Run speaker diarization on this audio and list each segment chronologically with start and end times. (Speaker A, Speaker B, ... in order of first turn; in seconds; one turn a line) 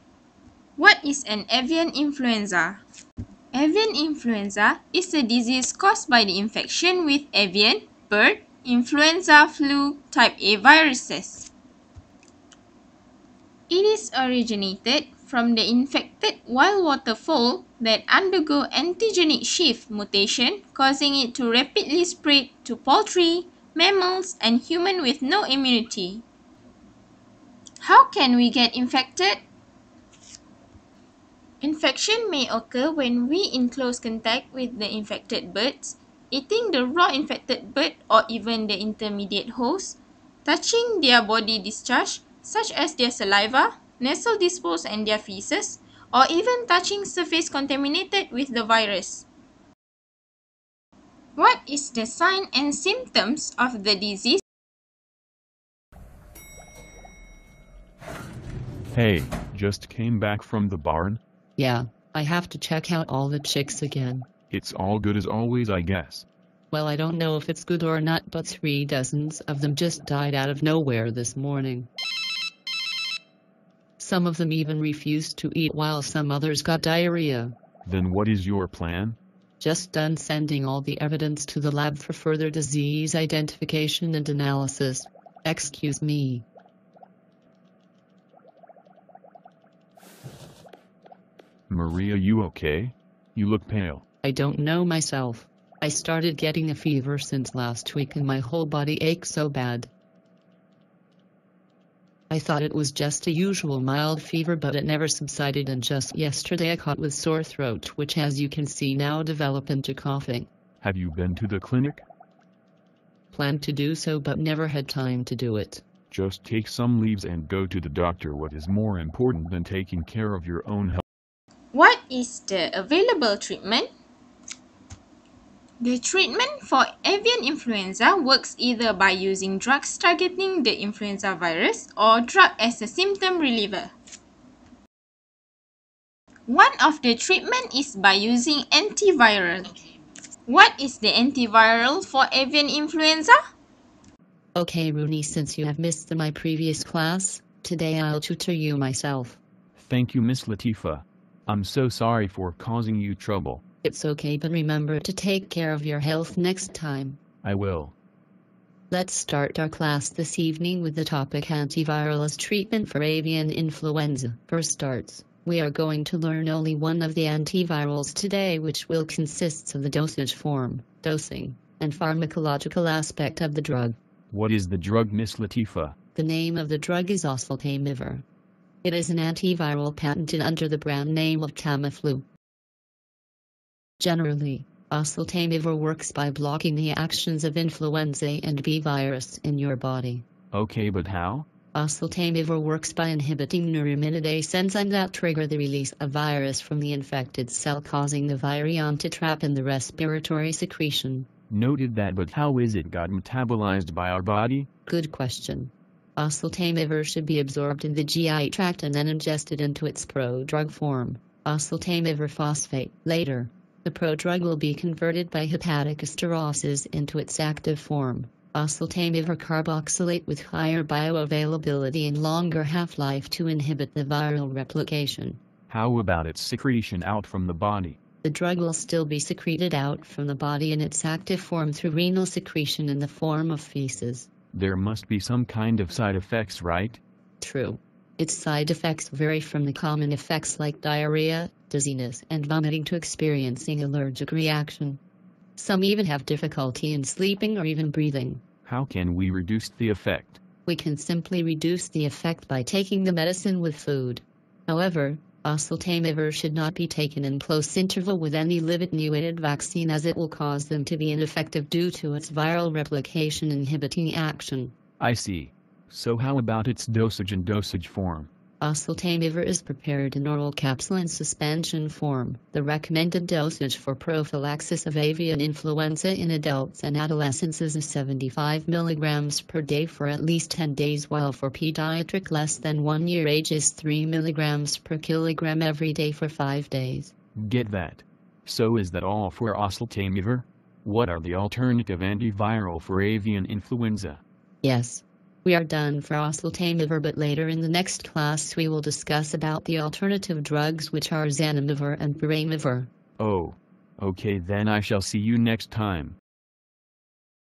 Speaker A: 0.8-2.8
Speaker A: 3.5-11.5
Speaker A: 13.7-26.2
Speaker A: 27.8-29.4
Speaker A: 31.6-49.3
Speaker A: 51.4-54.4
Speaker B: 58.9-61.2
Speaker C: 61.6-64.3
Speaker B: 64.5-66.2
Speaker C: 66.7-71.9
Speaker C: 74.0-77.5
Speaker B: 77.8-79.2
Speaker C: 79.6-86.4
Speaker B: 91.7-94.0
Speaker C: 94.2-99.9
Speaker C: 102.3-110.5
Speaker B: 110.8-112.0
Speaker C: 113.3-115.8
Speaker B: 116.1-121.0
Speaker A: 121.7-123.9
Speaker A: 125.8-133.9
Speaker A: 136.5-139.7
Speaker A: 140.5-143.3
Speaker C: 144.5-149.4
Speaker B: 149.8-153.6
Speaker C: 153.8-157.2
Speaker B: 157.4-157.9
Speaker C: 158.9-174.0
Speaker B: 174.3-175.9
Speaker C: 176.1-178.2
Speaker C: 178.8-182.3
Speaker C: 184.0-190.2
Speaker B: 190.5-191.4
Speaker C: 191.7-201.3
Speaker B: 201.5-204.7
Speaker C: 204.9-225.4
Speaker B: 225.7-228.0
Speaker C: 228.2-234.3
Speaker B: 234.5-237.0
Speaker C: 237.4-245.0
Speaker C: 245.6-248.4
Speaker B: 248.7-250.4
Speaker C: 250.7-264.8
Speaker B: 265.0-268.3
Speaker C: 268.6-287.1
Speaker B: 287.4-294.2
Speaker C: 294.6-302.9
Speaker B: 303.2-306.2